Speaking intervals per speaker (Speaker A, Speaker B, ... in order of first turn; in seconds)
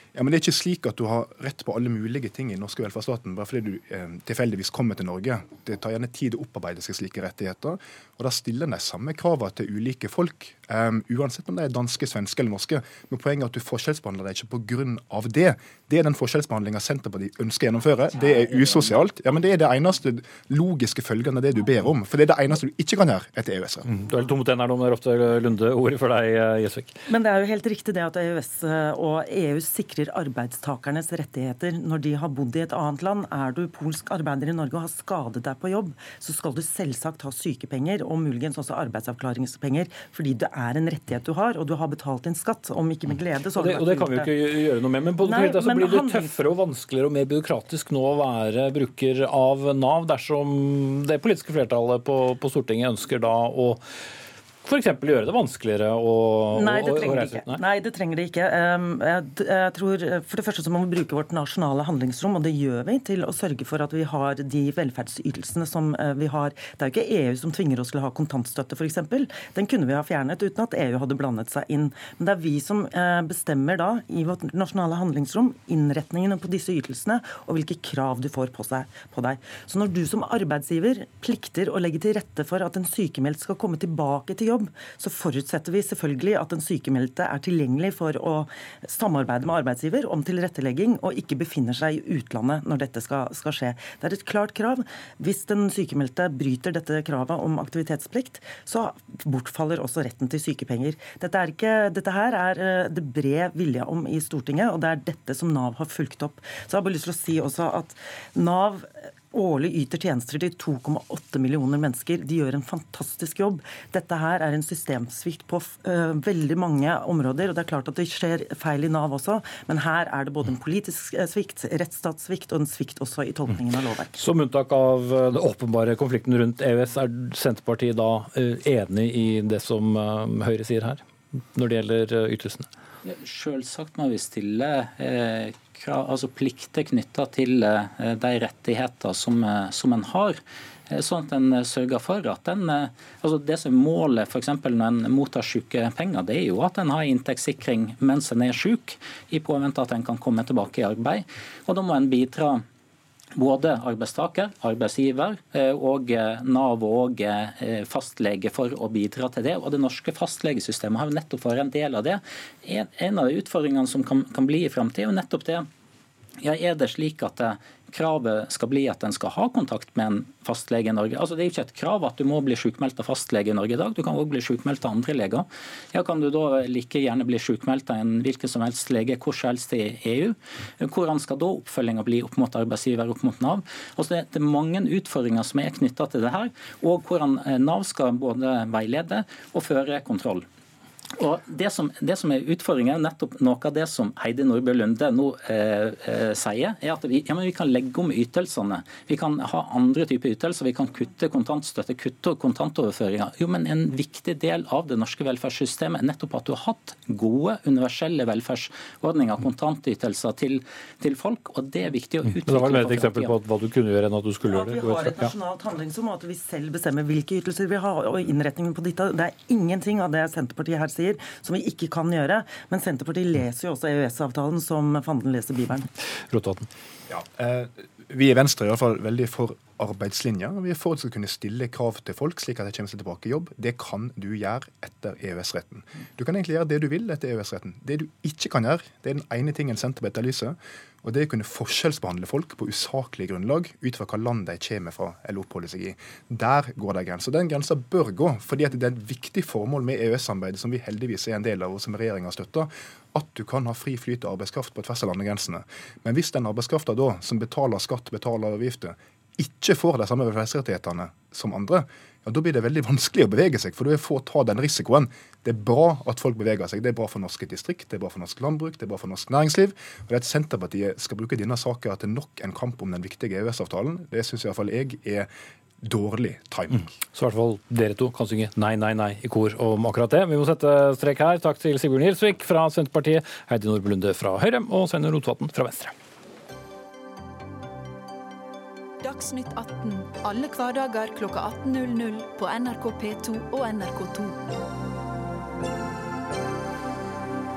Speaker A: 0.1-23.9, 227.1-275.3, 275.8-276.9
Speaker B: 23.9-27.0, 43.6-53.8, 54.6-57.6, 124.2-132.7, 212.4-215.3, 226.3-226.7, 277.1-285.9
Speaker C: 27.1-44.3, 45.2-46.3, 56.5-124.2, 214.4-225.9
Speaker D: 133.1-152.6, 153.4-165.7, 166.4-190.5, 191.2-213.3
Speaker E: 289.0-294.4